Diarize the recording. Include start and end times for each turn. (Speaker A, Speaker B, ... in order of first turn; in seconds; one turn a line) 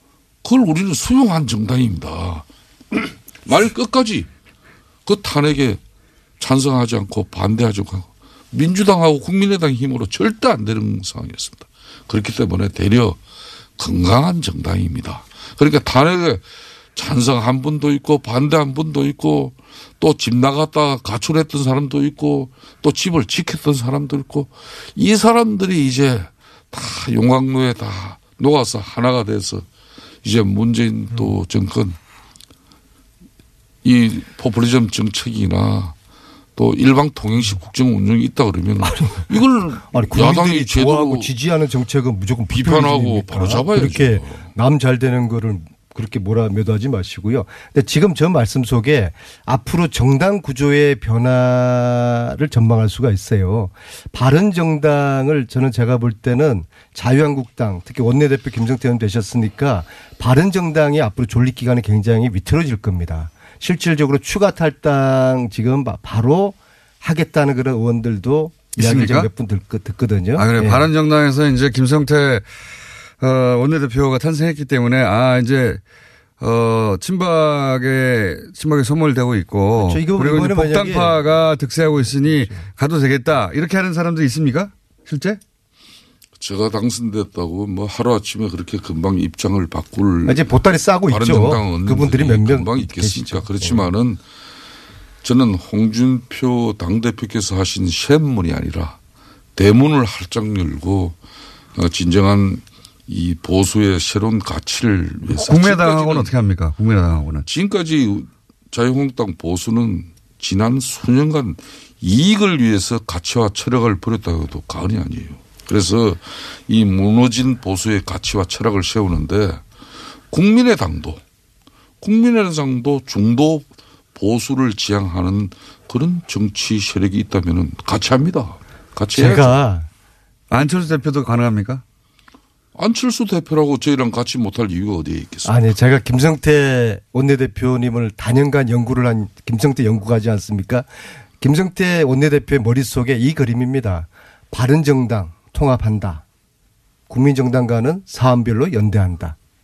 Speaker A: 0.4-4.3
Speaker A: 5.0-5.8
Speaker A: 6.4-13.2
Speaker A: 13.8-16.4
Speaker A: 16.9-29.6
Speaker A: 30.2-31.9
Speaker A: 33.8-35.9
Speaker A: 36.5-41.3
Speaker B: 38.8-39.3
Speaker B: 39.9-70.8
Speaker A: 42.5-44.5
Speaker C: 68.8-69.3
Speaker C: 70.3-72.5
Speaker C: 73.2-75.8
Speaker C: 76.4-85.4
Speaker B: 79.8-81.2
Speaker B: 82.3-82.7
Speaker A: 86.4-90.5
Speaker B: 90.2-93.9
Speaker A: 91.1-94.2
Speaker A: 95.2-99.0
Speaker A: 99.5-101.2
Speaker A: 101.8-106.3
Speaker C: 105.3-107.5
Speaker A: 107.5-119.6
Speaker A: 120.3-121.2
Speaker A: 122.0-129.6
Speaker B: 129.1-129.9
Speaker C: 130.5-131.8
Speaker A: 132.7-135.6
Speaker B: 135.4-146.2
Speaker B: 147.1-149.4